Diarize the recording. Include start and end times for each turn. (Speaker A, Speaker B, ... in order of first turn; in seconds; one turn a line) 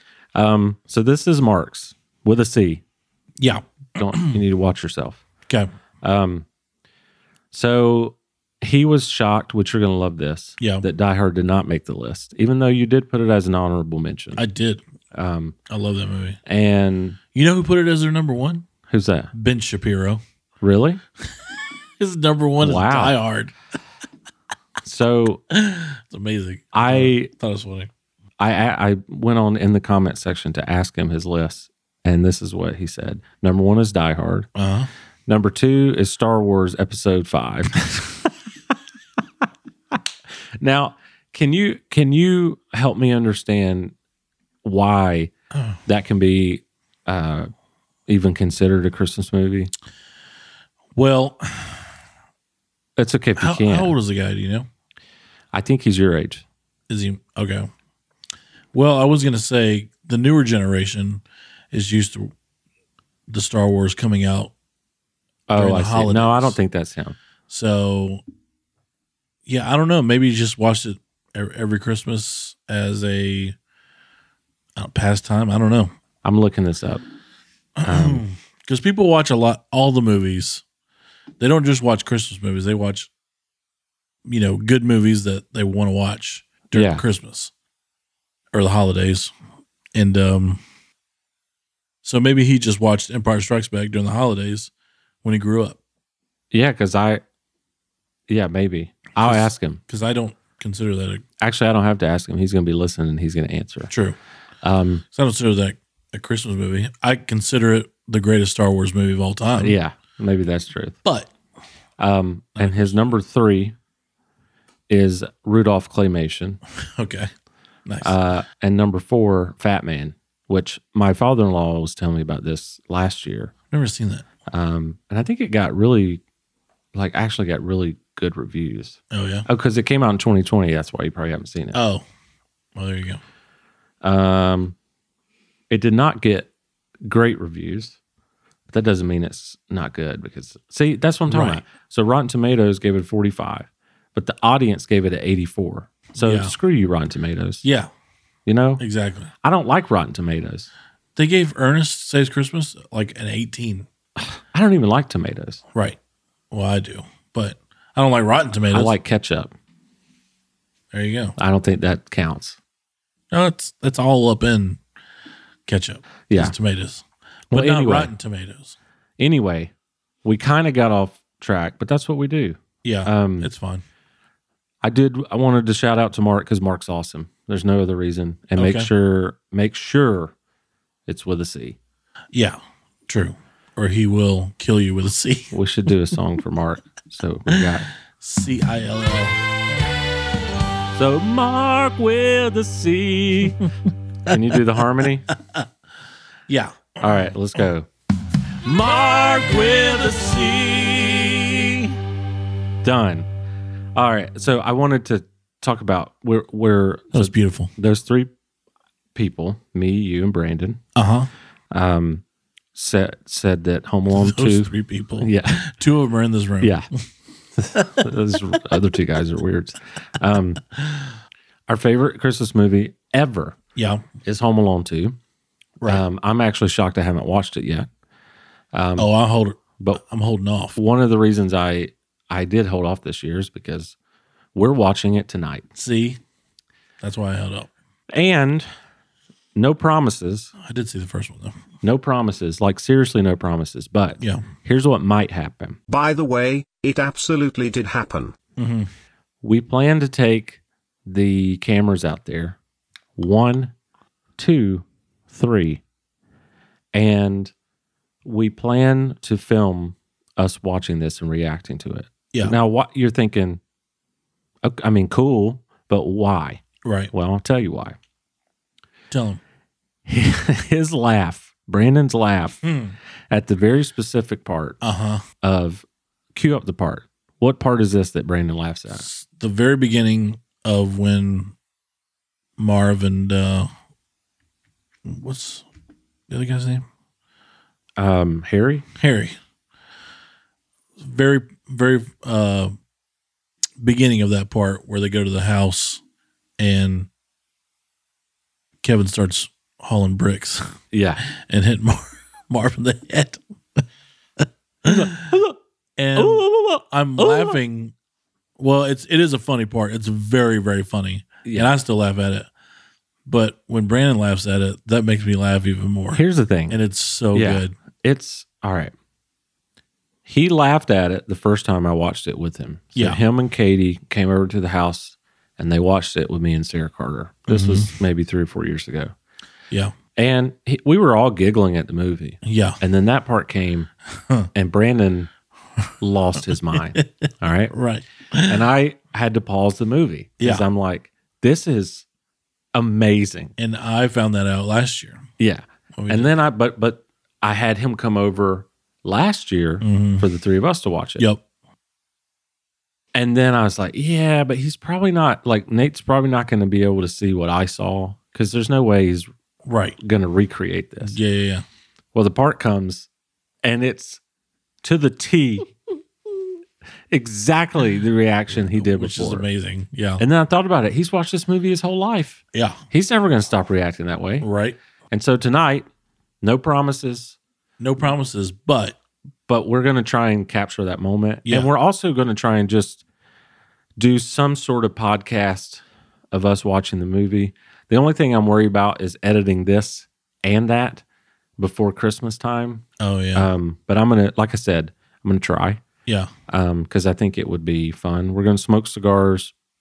Speaker A: 0.3-2.8
Speaker B: 3.4-4.4
Speaker A: 4.0-5.2
Speaker A: 6.0-6.5
Speaker A: 7.5-14.4
Speaker B: 10.6-10.8
Speaker B: 14.4-14.8
Speaker A: 15.1-15.6
Speaker B: 15.7-16.4
Speaker A: 16.5-17.2
Speaker B: 17.3-18.7
Speaker A: 18.9-19.3
Speaker B: 19.3-20.2
Speaker A: 20.6-21.0
Speaker B: 22.0-23.5
Speaker A: 22.6-23.2
Speaker A: 24.8-25.4
Speaker B: 25.5-27.9
Speaker A: 26.7-27.3
Speaker A: 28.4-34.5
Speaker B: 34.6-34.9
Speaker A: 35.3-38.3
Speaker A: 40.6-44.0
Speaker A: 44.6-45.3
Speaker B: 45.5-45.8
Speaker A: 45.9-47.5
Speaker A: 48.1-49.7
Speaker B: 51.0-51.9
Speaker A: 53.0-53.9
Speaker B: 53.4-54.7
Speaker A: 55.5-56.4
Speaker B: 56.9-57.7
Speaker B: 58.7-62.3
Speaker B: 63.3-64.5
Speaker A: 65.5-67.2
Speaker B: 65.5-66.6
Speaker B: 67.5-68.2
Speaker B: 69.5-73.6
Speaker B: 74.8-75.9
Speaker A: 76.2-77.0
Speaker B: 77.8-80.6
Speaker A: 77.8-78.2
Speaker B: 81.4-83.1
Speaker B: 84.2-87.5
Speaker A: 86.7-87.0
Speaker B: 88.5-89.3
Speaker B: 89.9-90.6
Speaker B: 92.0-94.7
Speaker B: 95.2-95.8
Speaker A: 96.5-97.2
Speaker A: 98.3-99.8
Speaker B: 99.2-101.2
Speaker A: 101.4-103.9
Speaker B: 103.9-104.2
Speaker A: 104.6-105.0
Speaker B: 105.1-109.8
Speaker A: 109.5-111.0
Speaker B: 111.0-111.3
Speaker A: 112.0-113.8
Speaker B: 112.6-113.0
Speaker A: 114.9-116.6
Speaker B: 117.0-117.3
Speaker B: 117.9-118.2
Speaker A: 118.0-123.5
Speaker B: 123.7-124.2
Speaker A: 124.5-126.2
Speaker A: 126.9-131.8
Speaker B: 129.1-129.5
Speaker B: 131.7-132.1
Speaker B: 132.8-133.2
Speaker A: 134.0-134.8
Speaker A: 135.7-136.5
Speaker A: 137.1-138.0
Speaker A: 138.7-147.6
Speaker B: 141.3-141.6
Speaker B: 146.2-146.6
Speaker B: 147.6-147.9
Speaker A: 148.5-148.8
Speaker B: 148.8-149.3
Speaker A: 149.4-150.7
Speaker B: 151.2-153.9
Speaker A: 154.2-155.6
Speaker B: 156.5-158.9
Speaker A: 158.7-159.5
Speaker B: 160.9-161.3
Speaker A: 161.4-162.6
Speaker B: 163.3-164.8
Speaker B: 165.7-168.8
Speaker A: 166.3-166.6
Speaker A: 167.5-168.1
Speaker A: 169.2-169.7
Speaker A: 170.2-173.5
Speaker B: 172.8-173.8
Speaker A: 174.8-180.3
Speaker B: 178.6-178.9
Speaker A: 181.1-181.8
Speaker B: 182.3-185.5
Speaker A: 185.5-187.9
Speaker B: 188.2-189.4
Speaker A: 190.9-193.7
Speaker A: 194.3-195.3
Speaker B: 196.5-197.1
Speaker A: 197.0-197.9
Speaker A: 198.6-201.9
Speaker A: 202.8-203.3
Speaker A: 204.0-208.3
Speaker B: 207.1-207.7
Speaker A: 209.2-210.8
Speaker B: 210.9-211.3
Speaker A: 211.7-212.2
Speaker A: 212.8-215.7
Speaker B: 214.1-216.8
Speaker A: 216.6-216.9
Speaker A: 217.6-220.6
Speaker B: 217.8-218.1
Speaker A: 221.7-223.6
Speaker B: 223.8-224.1
Speaker A: 224.2-225.2
Speaker A: 225.9-227.9
Speaker A: 228.7-229.1
Speaker B: 229.0-230.8
Speaker A: 230.8-233.9
Speaker A: 234.6-235.7
Speaker B: 235.8-236.2
Speaker B: 237.0-237.7
Speaker A: 238.1-238.7
Speaker A: 239.6-240.5
Speaker B: 240.6-241.6
Speaker A: 241.8-245.8
Speaker B: 244.2-244.5
Speaker C: 245.9-248.3
Speaker B: 248.6-248.9
Speaker A: 249.4-252.6
Speaker A: 253.2-253.7
Speaker A: 254.4-255.8
Speaker A: 256.9-257.5
Speaker A: 258.2-263.6
Speaker A: 264.6-268.0
Speaker B: 266.8-267.1
Speaker B: 269.1-269.4
Speaker A: 270.1-272.7
Speaker B: 272.6-272.9
Speaker A: 273.3-274.8
Speaker B: 274.8-275.2
Speaker A: 275.4-279.0
Speaker B: 278.9-281.5
Speaker B: 282.6-283.7
Speaker B: 285.1-285.6
Speaker B: 286.3-286.9
Speaker A: 288.0-288.9
Speaker B: 289.0-289.4
Speaker B: 291.0-292.8
Speaker B: 293.8-296.0
Speaker B: 296.6-297.1
Speaker B: 298.8-300.7
Speaker A: 300.9-301.2
Speaker B: 301.3-303.8
Speaker B: 304.4-305.2
Speaker A: 304.9-305.6
Speaker B: 306.0-307.9
Speaker A: 306.2-307.6
Speaker B: 308.6-312.5
Speaker A: 311.4-311.7
Speaker B: 313.3-317.7
Speaker A: 316.1-316.8
Speaker A: 317.3-318.9
Speaker A: 320.3-329.1
Speaker B: 327.5-327.9
Speaker A: 330.1-333.9
Speaker B: 332.4-332.8
Speaker A: 334.5-335.3
Speaker A: 336.0-337.7
Speaker B: 336.7-338.6
Speaker A: 338.5-342.1
Speaker B: 340.4-340.7
Speaker A: 342.7-343.5
Speaker B: 343.6-345.2
Speaker A: 345.4-351.3
Speaker B: 346.0-346.3
Speaker B: 349.8-350.2
Speaker A: 353.1-359.3
Speaker B: 359.6-360.0
Speaker A: 360.0-361.2
Speaker B: 361.1-361.6
Speaker A: 362.1-363.1
Speaker A: 363.6-364.2
Speaker A: 364.8-365.7
Speaker A: 367.1-369.5
Speaker B: 368.6-370.2
Speaker A: 370.2-374.5
Speaker B: 374.4-374.8
Speaker A: 375.1-375.9
Speaker A: 376.4-377.4
Speaker B: 377.8-379.0
Speaker A: 379.5-383.0
Speaker A: 384.0-391.0
Speaker A: 391.6-395.8
Speaker B: 393.0-393.5
Speaker A: 396.5-399.5